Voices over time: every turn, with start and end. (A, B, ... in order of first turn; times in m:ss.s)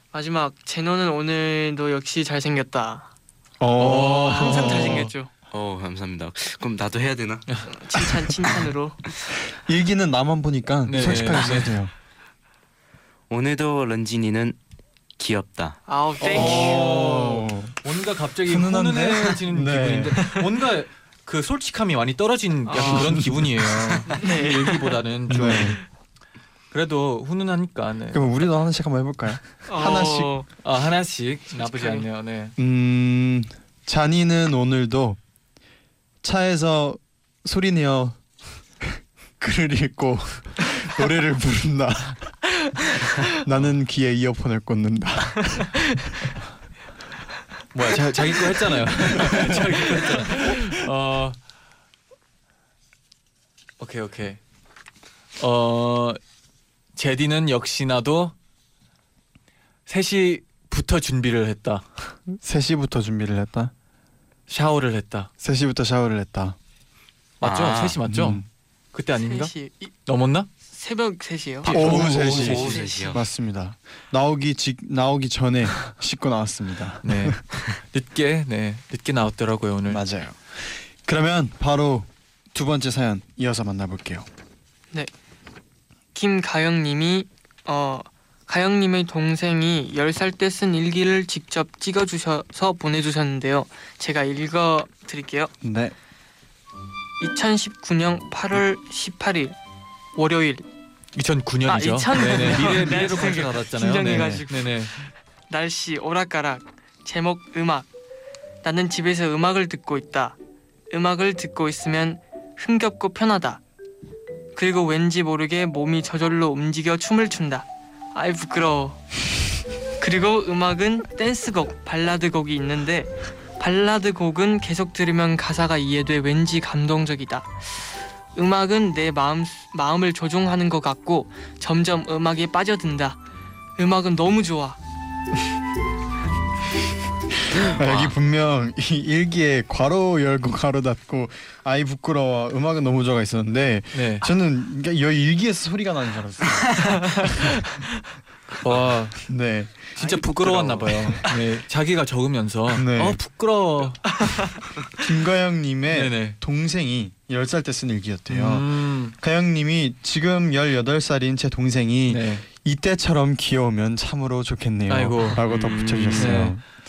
0:00.1-0:03.1 A
0:03.6-0:05.1 B
0:03.8-0:05.3 A
0:03.8-0:05.1 C
0:05.5-0:07.5 D
0:07.6-0:09.0 A
0:09.5-0:11.9 B
0:10.8-0:11.7 C
0:13.3-0:14.6 D
0:15.2-0:15.8 D
0:15.9-0:16.9 A
0:16.2-0:17.8 B
0:16.2-0:25.8 C
0:18.4-0:20.3 B
0:22.7-0:23.1 A
0:22.8-0:24.0 B
0:24.2-0:25.0 A
0:25.3-0:25.8 B
0:26.7-0:28.2 C
0:28.1-0:30.3 B
0:29.7-0:30.5 A
0:30.6-0:32.5 C
0:31.5-0:32.1 A
0:32.6-0:35.2 B
0:36.2-0:38.2 B
0:38.8-0:42.4 B
0:43.2-0:46.1 B
0:47.7-0:51.4 C
0:48.9-0:50.6 B
0:53.8-0:54.4 C
0:55.4-0:56.2 C
0:56.9-0:58.3 C
0:59.9-1:02.1 C
1:02.3-1:03.7 B
1:04.5-1:05.3 C
1:05.4-1:06.6 B
1:07.4-1:08.0 D
1:07.4-1:09.5 C
1:08.0-1:08.4 B
1:09.2-1:09.9 A
1:10.0-1:10.5 C
1:10.7-1:13.1 A
1:11.6-1:12.8 C
1:11.6-1:17.4 B
1:11.7-1:13.2 D
1:17.0-1:20.0 C
1:19.9-1:24.3 B
1:26.1-1:35.5 A
1:35.6-1:35.9 B
1:37.2-1:39.5 A
1:40.1-1:40.6 A
1:41.1-1:44.9 C
1:41.6-1:47.9 A
1:44.0-1:44.4 B
1:48.6-1:50.4 A
1:50.9-1:53.6 A
1:54.5-1:59.0 A
2:00.0-2:07.8 A
2:08.3-2:13.2 A
2:13.8-2:14.8 A
2:17.4-2:27.6 B
2:17.5-2:18.1 D
2:23.9-2:24.3 C
2:26.9-2:27.5 A
2:28.6-2:29.3 C
2:29.2-2:31.2 B
2:30.0-2:34.3 C
2:30.2-2:30.8 D
2:32.7-2:33.2 B
2:34.2-2:34.5 A
2:34.9-2:46.7 B
2:35.9-2:36.4 C
2:38.3-2:39.1 C
2:42.1-2:42.4 C
2:44.9-2:45.4 C
2:45.4-2:46.5 D
2:46.2-2:46.6 C